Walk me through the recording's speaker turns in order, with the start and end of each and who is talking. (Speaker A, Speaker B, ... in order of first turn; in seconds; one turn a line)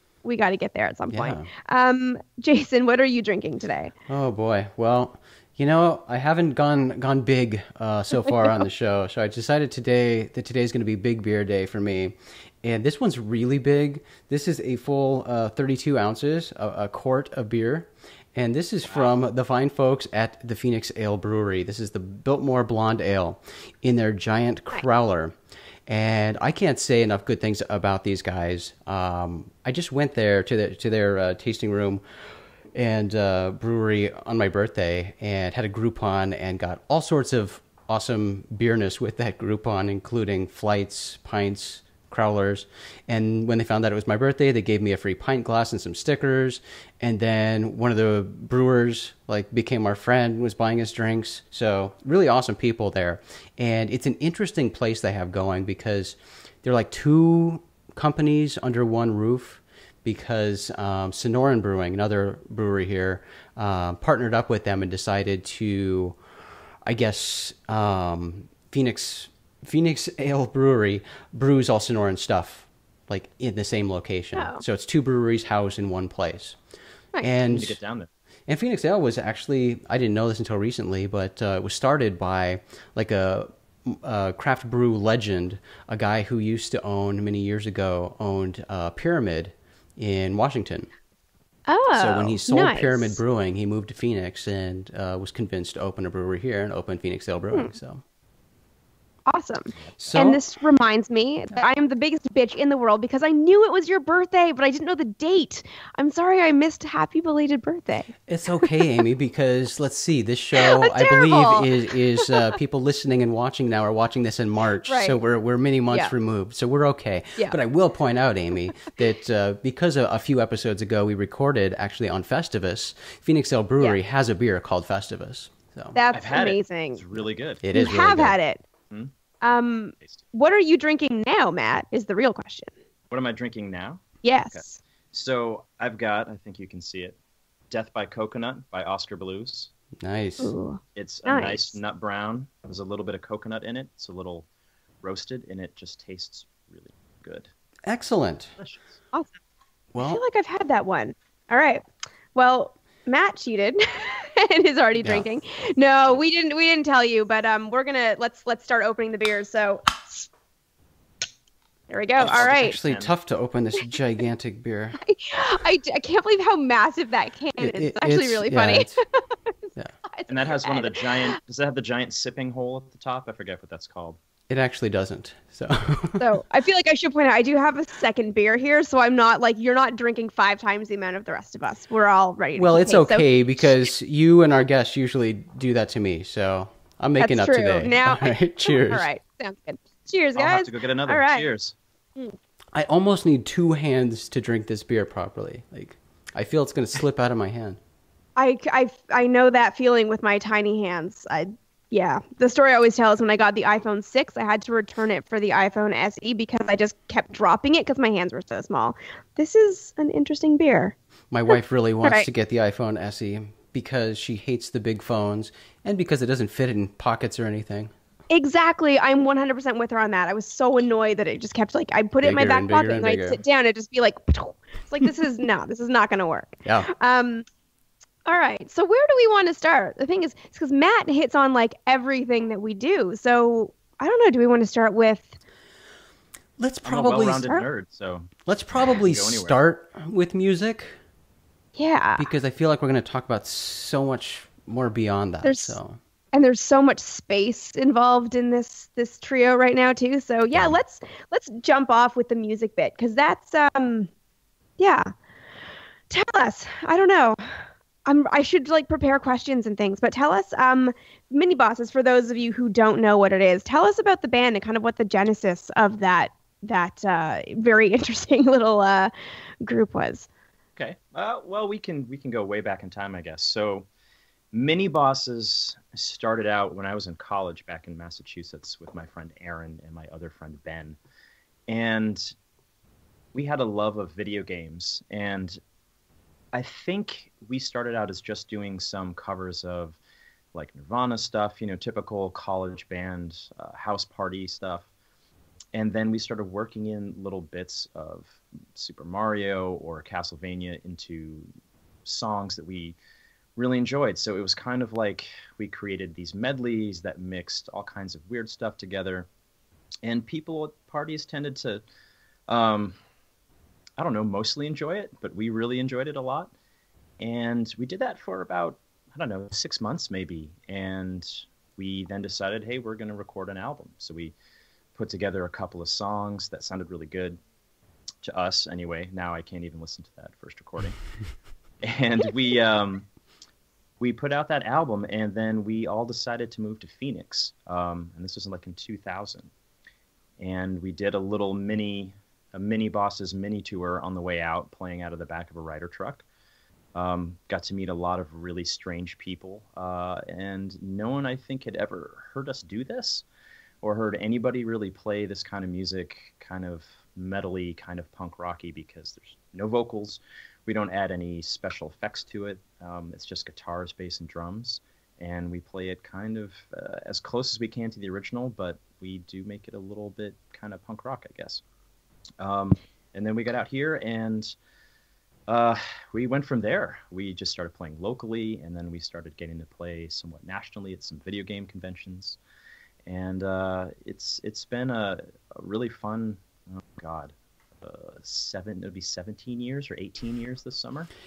Speaker A: 0.2-3.9
Speaker B: 1.1-1.5
Speaker B: 4.1-25.4
Speaker B: 25.9-32.0
Speaker B: 32.7-66.2
Speaker B: 66.8-76.6
Speaker A: 74.3-74.6
Speaker B: 77.2-77.8
Speaker C: 77.5-78.1
Speaker B: 78.5-90.9
Speaker A: 91.7-93.2
Speaker B: 91.9-98.0
Speaker A: 99.3-108.8
Speaker B: 100.0-100.4
Speaker B: 108.3-126.0
Speaker A: 110.5-112.3
Speaker A: 114.9-115.2
Speaker A: 125.9-127.0
Speaker C: 126.1-127.6
Speaker B: 127.6-128.3
Speaker A: 127.7-128.6
Speaker A: 129.4-132.7
Speaker C: 133.1-134.6
Speaker A: 134.2-134.8
Speaker C: 135.1-137.2
Speaker C: 137.7-139.7
Speaker B: 140.0-140.5
Speaker A: 140.4-141.8
Speaker C: 141.0-144.5
Speaker C: 145.0-147.5
Speaker B: 147.9-148.5
Speaker C: 148.6-149.0
Speaker B: 149.9-150.2
Speaker A: 150.0-160.3
Speaker A: 161.9-162.8
Speaker C: 162.2-163.1
Speaker B: 162.4-165.0
Speaker A: 165.0-169.5
Speaker B: 167.6-169.0
Speaker A: 170.1-171.3
Speaker C: 170.3-174.2
Speaker B: 174.5-176.3
Speaker A: 176.2-183.3
Speaker B: 182.6-189.1
Speaker A: 187.2-191.5
Speaker C: 190.4-191.7
Speaker B: 192.7-197.8
Speaker A: 198.4-210.9
Speaker B: 211.3-217.9
Speaker A: 211.5-212.3
Speaker A: 218.3-227.4
Speaker B: 222.2-223.4
Speaker B: 226.6-226.9
Speaker A: 228.3-235.4
Speaker B: 236.6-237.6
Speaker C: 236.8-239.6
Speaker B: 238.5-241.0
Speaker A: 241.8-242.2
Speaker B: 242.2-246.0
Speaker A: 245.4-245.8
Speaker A: 246.3-254.1
Speaker A: 254.8-255.1
Speaker A: 256.1-269.1
Speaker A: 269.6-270.3
Speaker C: 270.8-273.9
Speaker C: 274.5-281.0
Speaker C: 281.7-282.3
Speaker C: 283.3-285.6
Speaker C: 286.5-290.0
Speaker C: 290.5-294.9
Speaker C: 295.7-301.5
Speaker C: 302.1-303.0
Speaker C: 303.6-309.3
Speaker C: 310.0-311.8
Speaker C: 312.5-312.9
Speaker C: 314.0-316.5
Speaker C: 317.2-324.3
Speaker C: 324.9-327.4
Speaker C: 328.2-331.0
Speaker C: 331.8-333.1
Speaker C: 334.0-339.5
Speaker C: 340.4-346.2
Speaker C: 346.9-353.2
Speaker C: 353.8-371.6
Speaker C: 372.4-374.5
Speaker C: 375.5-382.4
Speaker C: 383.1-391.1